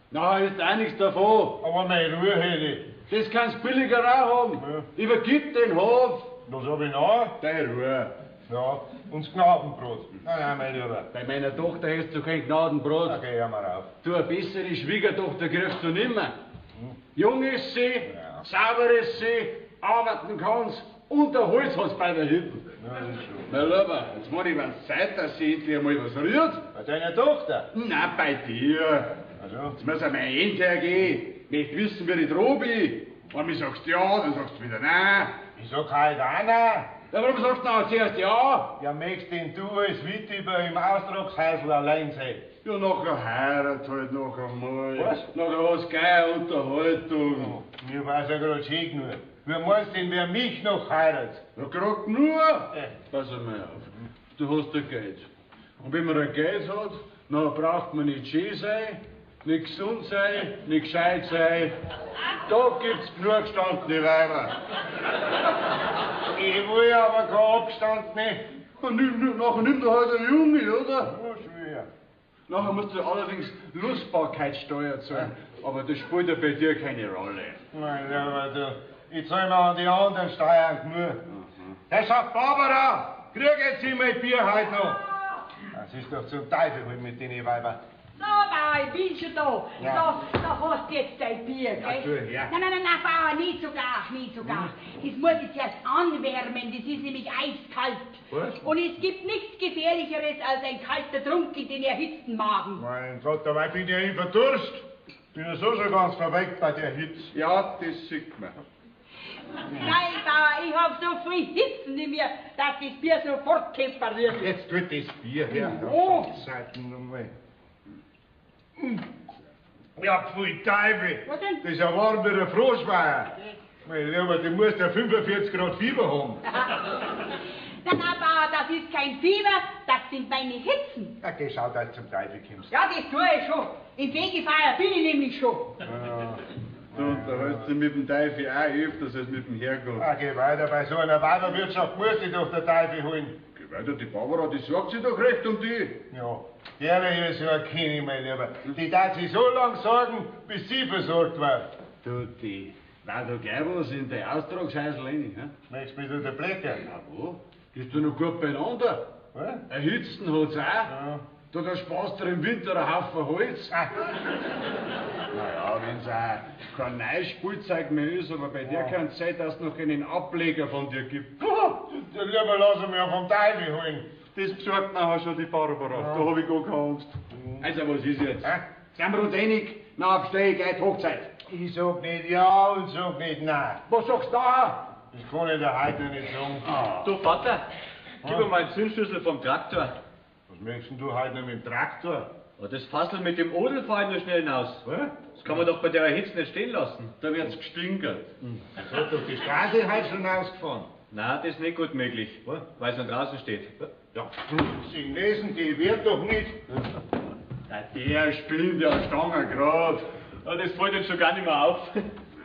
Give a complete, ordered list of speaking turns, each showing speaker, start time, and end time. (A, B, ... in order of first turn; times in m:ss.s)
0:00.1-0:01.6 A
0:01.6-0:03.0 B
0:03.1-0:06.3 A
0:04.6-0:04.9 B
0:06.4-0:07.4 B
0:07.4-0:08.1 A
0:08.4-0:11.1 B
0:11.1-0:13.2 A
0:13.0-0:13.9 B
0:14.0-0:16.3 A
0:17.1-0:22.7 A
0:18.1-0:18.4 B
0:22.8-0:23.5 B
0:23.5-0:26.6 A
0:26.7-0:27.7 B
0:27.7-0:29.1 A
0:29.4-0:29.8 B
0:29.8-0:35.3 A
0:35.6-0:36.9 B
0:37.1-0:38.7 A
0:38.7-0:42.5 B
0:42.6-0:47.6 A
0:45.0-0:45.2 B
0:47.4-0:51.4 B
0:51.6-0:55.3 A
0:55.8-1:01.7 A
1:02.4-1:04.5 A
1:06.3-1:08.4 B
1:08.8-1:11.1 A
1:11.0-1:11.9 B
1:12.5-1:17.6 A
1:17.7-1:21.2 B
1:21.9-1:25.0 B
1:25.7-1:27.8 B
1:28.2-1:42.8 C
1:29.8-1:30.1 B
1:31.8-1:32.5 B
1:34.4-1:34.7 B
1:38.3-1:38.6 B
1:42.8-1:47.3 B
1:47.3-1:48.6 A
1:49.7-1:54.5 C
1:54.3-1:57.3 B
2:00.0-2:03.3 B
2:01.3-2:01.6 C
2:03.8-2:06.4 B
2:06.5-2:06.8 C
2:07.8-2:11.2 C
2:11.2-2:12.7 B
2:12.7-2:15.8 C
2:15.8-2:16.4 B
2:16.9-2:20.0 A
2:16.9-2:17.7 B
2:20.0-2:23.4 B
2:23.5-2:26.0 A
2:26.1-2:31.7 B
2:32.0-2:35.5 A
2:35.7-2:36.8 B
2:36.9-2:39.0 A
2:39.3-2:39.6 B
2:39.7-2:40.9 A
2:40.9-2:41.2 B
2:41.5-2:43.7 A
2:43.7-2:44.0 B
2:45.3-2:51.4 A
2:48.6-2:48.9 B
2:51.4-2:54.1 B
2:54.3-3:01.3 A
2:55.9-2:56.3 B
2:57.3-2:57.6 B
3:01.5-3:03.8 B
3:03.9-3:04.8 A
3:05.1-3:06.7 B
3:06.7-3:07.1 A
3:07.0-3:07.7 D
3:08.2-3:10.0 D
3:10.5-3:12.3 B
3:12.6-3:17.1 D
3:17.2-3:18.3 A
3:18.7-3:20.9 B
3:21.1-3:23.7 D
3:24.0-3:26.6 B
3:27.7-3:30.0 A
3:30.4-3:32.1 D